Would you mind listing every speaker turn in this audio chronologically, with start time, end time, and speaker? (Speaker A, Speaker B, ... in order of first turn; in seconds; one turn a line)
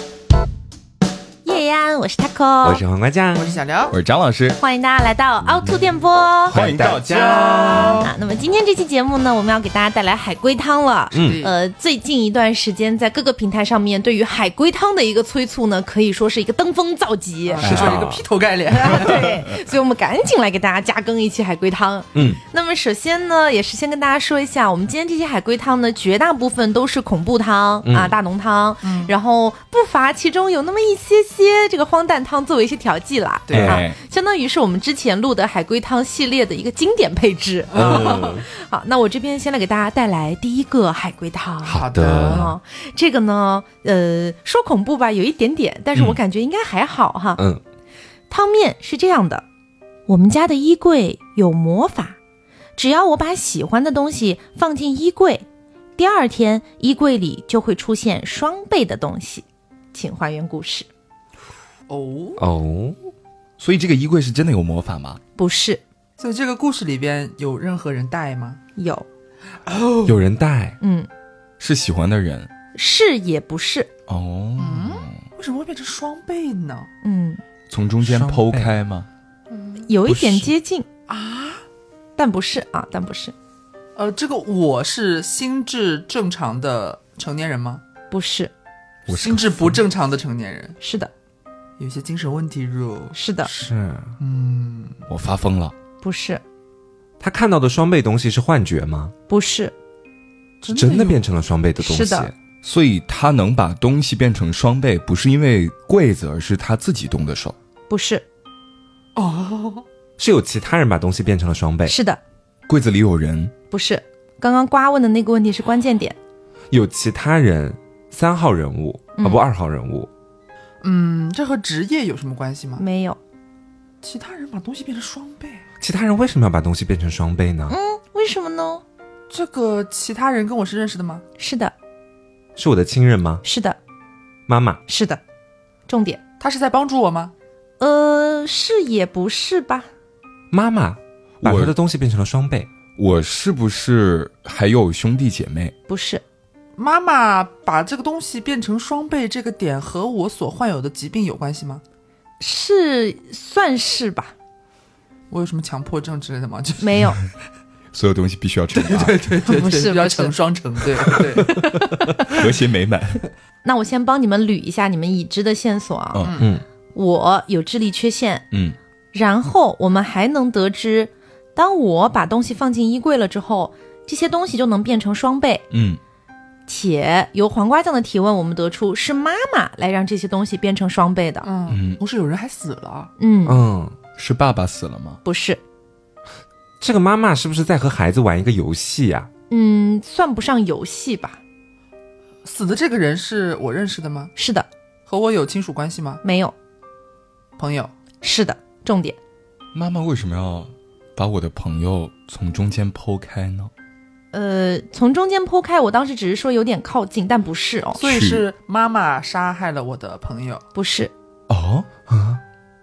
Speaker A: 1.4-2.8
Speaker B: 2.6-3.6
Speaker C: 3.3-4.0
Speaker D: 3.9-4.6
Speaker A: 4.6-6.6
Speaker B: 6.5-8.0
Speaker D: 6.5-8.1
Speaker A: 7.9-17.9
Speaker B: 11.1-11.4
Speaker C: 11.2-11.6
Speaker C: 17.4-19.4
Speaker B: 17.6-18.2
Speaker A: 18.7-47.4
Speaker B: 22.1-22.4
Speaker B: 27.8-28.1
Speaker C: 28.8-29.1
Speaker D: 33.5-34.0
Speaker B: 33.5-33.8
Speaker C: 37.7-38.4
Speaker B: 37.7-38.5
Speaker B: 41.6-42.5
Speaker C: 41.7-42.5
Speaker B: 45.9-46.2
Speaker A: 48.3-49.4
Speaker A: 50.1-52.2
Speaker A: 52.8-55.4
Speaker A: 56.0-60.9
Speaker C: 61.9-62.4
Speaker B: 62.4-63.0
Speaker D: 63.6-65.2
Speaker A: 65.4-65.8
Speaker C: 66.2-68.6
Speaker A: 68.8-69.0
Speaker C: 69.7-70.2
Speaker B: 70.0-70.8
Speaker A: 70.8-71.1
Speaker D: 71.6-72.5
Speaker A: 72.7-73.9
Speaker D: 74.1-75.2
Speaker C: 74.6-76.9
Speaker A: 77.0-77.4
Speaker D: 77.7-79.1
Speaker B: 78.0-78.7
Speaker C: 79.5-79.8
Speaker A: 79.8-80.9
Speaker B: 80.0-80.5
Speaker C: 81.1-81.6
Speaker A: 82.2-83.3
Speaker C: 84.0-87.8
Speaker A: 88.1-88.5
Speaker B: 89.1-89.8
Speaker C: 89.1-90.8
Speaker D: 89.1-89.4
Speaker A: 90.8-91.1
Speaker C: 91.8-93.2
Speaker A: 93.1-93.5
Speaker B: 93.4-94.1
Speaker C: 94.2-95.0
Speaker D: 95.1-95.7
Speaker A: 96.0-96.4
Speaker B: 97.2-99.1
Speaker A: 99.3-99.7
Speaker C: 100.6-101.2
Speaker B: 100.7-102.3
Speaker A: 101.8-102.3
Speaker D: 102.6-107.5
Speaker A: 107.9-108.2
Speaker C: 109.2-109.8
Speaker B: 110.2-112.0
Speaker A: 111.8-112.2
Speaker D: 112.7-113.5
Speaker A: 113.7-116.2
Speaker B: 116.7-120.1
Speaker A: 119.2-119.4
Speaker C: 120.8-122.8
Speaker A: 122.8-123.2
Speaker C: 124.0-125.6
Speaker B: 125.8-127.7
Speaker A: 127.7-128.8
Speaker C: 129.3-131.2
Speaker A: 131.4-131.7
Speaker B: 132.6-133.4
Speaker A: 133.4-133.8
Speaker B: 134.5-134.8
Speaker A: 134.9-135.2
Speaker A: 135.9-136.2
Speaker C: 136.4-137.3
Speaker A: 137.8-139.9
Speaker B: 140.5-142.7
Speaker D: 141.4-141.7
Speaker D: 142.9-145.7
Speaker A: 145.9-146.2
Speaker C: 146.8-151.8
Speaker A: 152.4-154.3
Speaker C: 155.3-157.1
Speaker A: 156.8-157.2
Speaker D: 157.9-159.2
Speaker C: 158.7-161.6
Speaker A: 159.5-160.3
Speaker A: 161.6-162.3
Speaker D: 162.3-163.2
Speaker A: 163.6-166.3
Speaker D: 166.1-166.4
Speaker C: 166.2-166.5
Speaker A: 166.9-168.4
Speaker D: 168.5-168.8
Speaker A: 169.1-175.6
Speaker D: 175.7-176.0
Speaker A: 176.7-181.5
Speaker C: 181.4-183.1
Speaker D: 181.7-182.0
Speaker A: 183.2-183.6
Speaker B: 183.4-183.9
Speaker D: 184.2-185.2
Speaker A: 185.2-185.6
Speaker B: 186.8-189.3
Speaker A: 189.5-191.4
Speaker C: 192.4-194.3
Speaker A: 194.3-194.7
Speaker C: 195.1-196.2
Speaker A: 196.2-196.5
Speaker C: 197.6-197.9
Speaker A: 198.2-199.2
Speaker D: 199.7-203.7
Speaker A: 204.3-208.0
Speaker C: 208.0-210.6
Speaker D: 208.0-208.4
Speaker A: 210.7-211.1
Speaker D: 211.5-211.9
Speaker B: 212.1-212.4